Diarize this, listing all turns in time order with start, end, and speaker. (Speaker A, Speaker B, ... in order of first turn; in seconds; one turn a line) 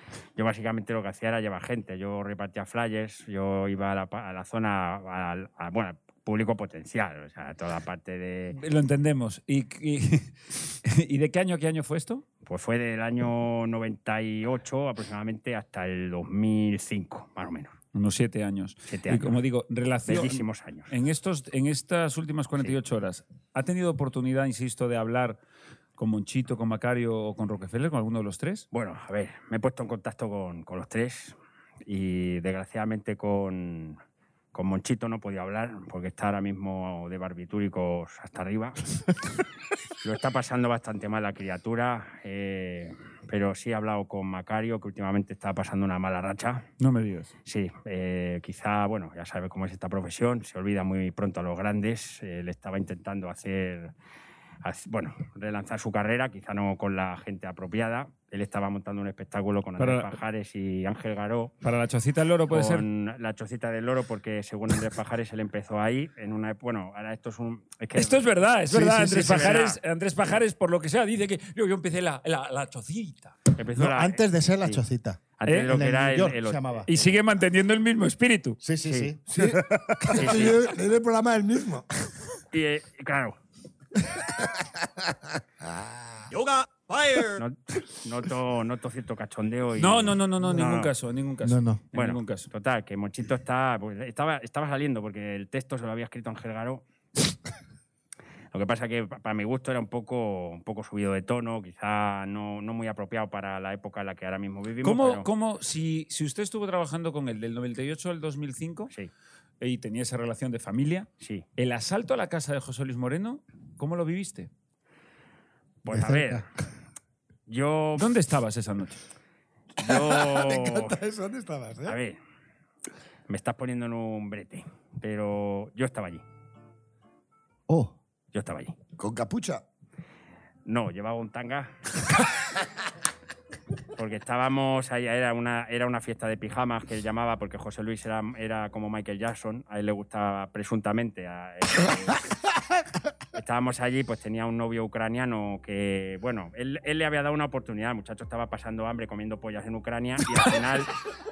Speaker A: 0.4-8.6
Speaker B: 8.5-12.2
Speaker A: 12.5-17.8
Speaker B: 17.9-25.4
Speaker A: 18.9-19.4
Speaker A: 20.1-20.9
Speaker B: 26.0-28.7
Speaker A: 28.7-34.0
Speaker A: 34.5-38.9
Speaker A: 40.0-46.7
Speaker B: 46.8-47.3
Speaker A: 47.5-53.9
Speaker A: 54.6-61.5
Speaker B: 59.8-60.1
Speaker B: 61.6-62.9
Speaker A: 62.5-68.2
Speaker B: 68.0-73.3
Speaker C: 68.7-69.6
Speaker A: 69.2-69.8
Speaker A: 73.6-74.8
Speaker C: 73.8-76.9
Speaker A: 75.4-77.2
Speaker B: 75.5-75.7
Speaker B: 76.9-78.6
Speaker C: 78.6-80.5
Speaker A: 78.8-79.1
Speaker D: 79.3-81.9
Speaker A: 80.2-80.6
Speaker A: 82.5-83.4
Speaker D: 85.6-86.3
Speaker B: 86.3-87.4
Speaker A: 87.4-90.9
Speaker B: 89.8-92.5
Speaker C: 91.4-91.8
Speaker A: 91.9-96.8
Speaker A: 98.5-105.3
Speaker B: 104.8-108.9
Speaker B: 109.6-114.5
Speaker A: 115.8-116.4
Speaker C: 115.9-116.5
Speaker A: 117.5-118.1
Speaker B: 118.0-119.0
Speaker A: 119.8-121.0
Speaker D: 119.8-122.0
Speaker A: 121.8-122.2
Speaker A: 123.3-126.2
Speaker C: 127.7-128.0
Speaker A: 128.3-128.8
Speaker D: 129.0-129.6
Speaker A: 130.7-131.7
Speaker A: 134.0-142.2
Speaker A: 143.3-150.9